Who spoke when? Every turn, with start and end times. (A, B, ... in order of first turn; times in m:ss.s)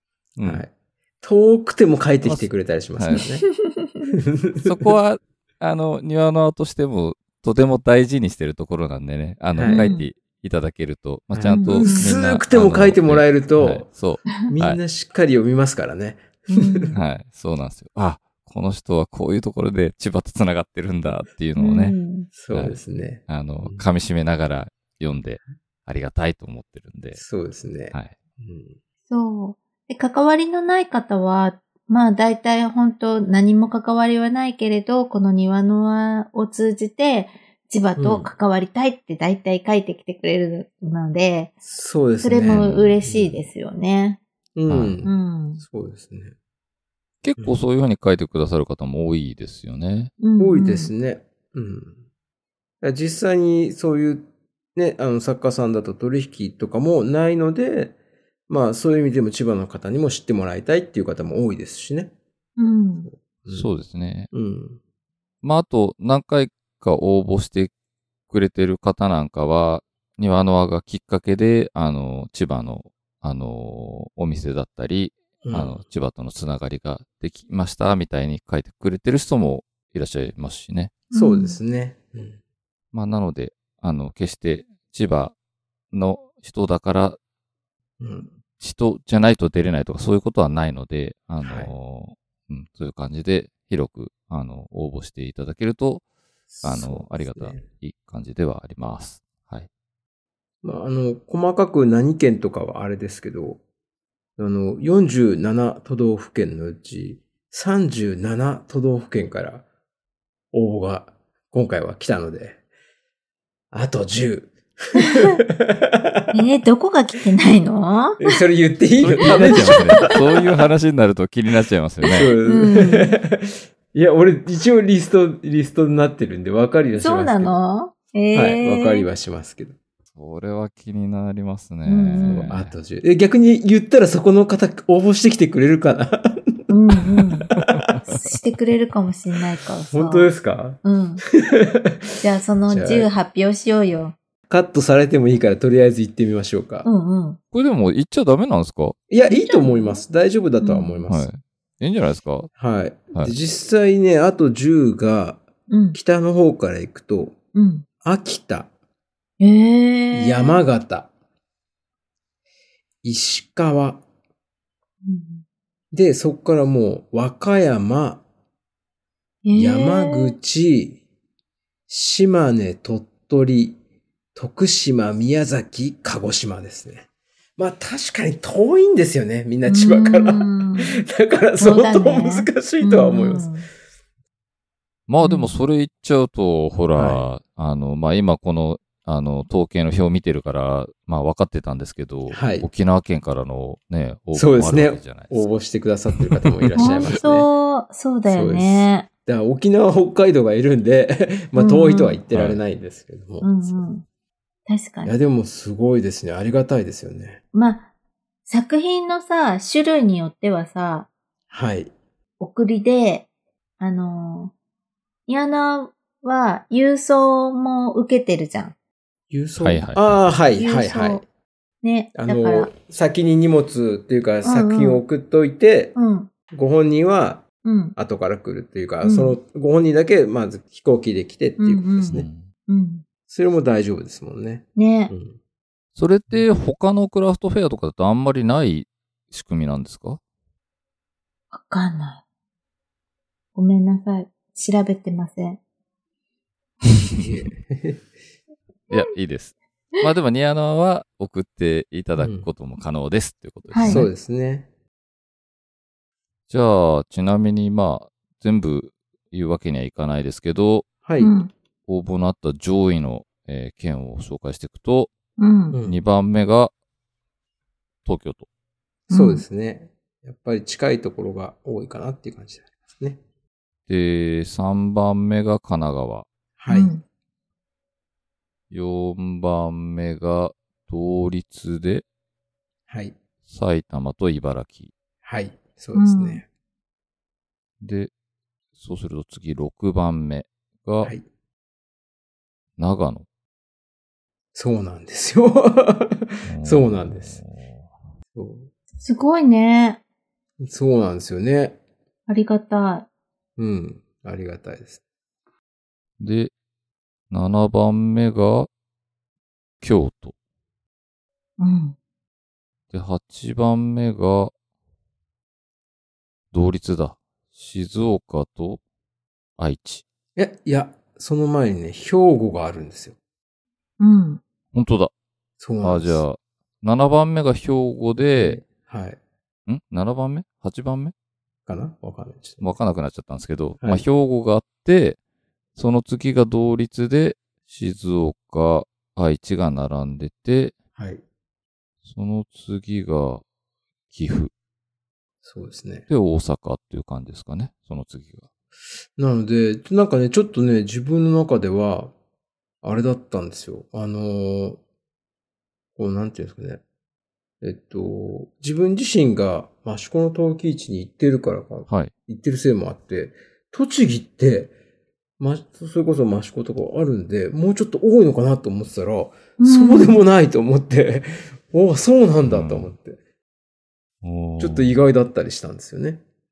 0:00.4-0:00.6 A
0:00.4-0:00.7 B
0:01.2-0:03.5 B
0:02.2-0:03.2 A
0:03.2-0:04.0 C
0:04.1-0:04.9 B
0:04.6-0:14.8 A
0:09.5-0:09.8 B
0:09.7-0:10.1 C
0:11.3-0:13.9 B
0:11.5-0:12.1 C
0:14.5-0:17.0 B
0:16.5-0:17.0 C
0:16.9-0:22.0 A
0:21.6-0:22.3 C
0:22.3-0:23.8 B
0:22.5-0:27.2 A
0:27.1-0:28.8 B
0:29.1-0:41.6 C
0:38.0-0:38.3 B
0:41.6-0:43.4 B
0:42.2-0:44.2 C
0:42.5-0:43.0 A
0:44.6-0:46.3 B
0:44.7-0:45.0 A
0:45.0-0:45.6 C
0:47.2-0:50.1 A
0:50.2-0:50.9 C
0:50.4-0:52.0 B
0:52.8-0:58.0 B
0:58.5-1:02.1 B
1:02.6-1:03.1 C
1:03.0-1:03.7 B
1:03.5-1:04.3 A
1:04.3-1:04.8 B
1:05.4-1:07.7 A
1:08.3-1:20.9 A
1:15.4-1:15.8 B
1:21.1-1:21.6 C
1:21.1-1:22.4 B
1:22.9-1:25.4 A
1:25.9-1:27.2 A
1:28.0-1:28.3 B
1:28.6-1:36.0 A
1:31.4-1:31.7 B
1:36.5-1:37.6 B
1:36.6-1:39.7 A
1:40.6-1:43.6 B
1:44.4-1:49.6 B
1:50.5-1:52.6 B
1:53.7-1:56.3 B
1:55.1-1:55.4 C
1:56.3-1:58.3 C
1:58.2-2:00.2 B
1:59.0-2:02.3 A
1:59.2-2:00.0 C
2:02.1-2:07.5 B
2:02.1-2:03.2 C
2:07.0-2:09.1 C
2:08.3-2:09.8 B
2:10.1-2:12.7 A
2:11.9-2:12.5 C
2:12.2-2:18.0 B
2:16.7-2:17.5 C
2:17.6-2:18.1 A
2:18.1-2:21.2 C
2:19.9-2:22.1 B
2:22.2-2:24.2 C
2:22.7-2:23.1 B
2:24.5-2:26.9 B
2:26.8-2:27.4 C
2:27.5-2:29.0 A
2:29.1-2:31.3 B
2:29.3-2:30.0 C
2:30.6-2:31.0 C
2:31.1-2:32.5 A
2:32.6-2:37.4 B
2:35.7-2:36.0 C
2:37.5-2:37.9 C
2:38.0-2:38.7 B
2:39.4-2:40.6 C
2:40.1-2:41.1 B
2:43.0-2:44.0 B
2:45.0-2:45.4 C
2:45.9-2:48.2 B
2:49.4-2:50.4 C
2:49.6-2:51.0 B
2:51.9-2:53.8 B
2:54.4-3:03.5 B
2:59.7-3:01.0 C
3:01.6-3:03.7 C
3:05.1-3:15.5 A
3:05.2-3:05.5 C
3:07.0-3:07.2 B
3:12.3-3:12.7 B
3:14.3-3:17.5 B
3:16.2-3:17.2 A
3:16.8-3:19.1 C
3:18.3-3:23.8 B
3:21.6-3:22.2 C
3:22.3-3:22.6 A
3:23.4-3:24.0 C
3:24.7-3:25.1 C
3:25.0-3:27.4 B
3:27.5-3:27.9 C
3:28.5-3:31.1 C
3:31.5-3:31.9 B
3:32.4-3:33.3 C
3:33.8-3:34.5 C
3:35.3-3:38.8 C
3:39.3-3:41.2 B
3:39.6-3:40.2 A
3:40.6-3:41.2 C
3:41.8-3:42.7 C
3:42.2-3:46.0 B
3:44.4-3:45.0 C
3:46.0-3:46.3 C
3:46.5-3:52.3 B
3:47.6-3:48.0 C
3:49.0-3:49.4 C
3:51.6-3:53.1 C
3:52.0-3:52.5 A
3:53.3-3:55.4 B
3:54.8-3:55.1 C
3:56.0-4:00.2 A
4:01.5-4:02.2 C
4:03.6-4:05.6 C
4:06.9-4:07.2 A
4:07.1-4:08.0 B
4:08.9-4:14.1 A
4:12.2-4:12.5 B
4:13.7-4:14.1 C
4:13.8-4:14.7 B
4:16.5-4:20.9 A
4:21.0-4:21.3 B
4:21.2-4:21.5 C
4:21.9-4:25.1 A
4:25.4-4:25.8 C
4:25.7-4:26.0 B
4:25.8-4:26.7 A
4:28.0-4:28.5 A
4:29.1-4:29.4 C
4:29.1-4:33.2 B
4:33.9-4:36.3 A
4:36.6-4:36.9 B
4:36.7-4:37.0 C
4:38.7-4:42.0 A
4:42.9-4:43.2 B
4:43.5-4:44.9 A
4:45.2-4:46.4 B
4:45.9-4:46.4 C
4:47.8-4:48.1 A
4:48.8-4:51.1 A
4:52.8-4:53.3 A
4:54.5-4:57.4 B
4:56.5-4:57.9 A
4:58.3-4:58.7 B
4:59.0-5:00.0 C
5:00.6-5:01.8 B
5:02.3-5:03.1 C
5:03.6-5:05.0 B
5:06.2-5:06.5 A
5:07.3-5:08.7 A
5:09.8-5:10.4 A
5:11.6-5:12.0 C
5:12.9-5:14.5 A
5:16.5-5:18.8 A
5:19.6-5:20.0 A
5:20.4-5:23.2 B
5:24.0-5:24.4 C
5:24.7-5:25.1 A
5:25.6-5:26.2 B
5:25.8-5:28.6 A
5:28.2-5:29.2 B
5:29.7-5:31.1 A
5:31.7-5:32.7 B
5:32.6-5:35.2 A
5:35.8-5:40.8 A
5:41.0-5:41.2 B
5:42.1-5:43.4 A
5:44.1-5:44.5 A
5:45.4-5:46.1 B
5:46.1-5:48.5 A
5:49.2-5:52.1 B
5:52.8-5:54.8 B
5:56.0-5:56.8 B
5:57.6-6:04.7 B
6:05.4-6:13.2 B
6:09.6-6:10.2 C
6:12.4-6:12.9 A
6:14.2-6:15.0 A
6:14.6-6:16.2 B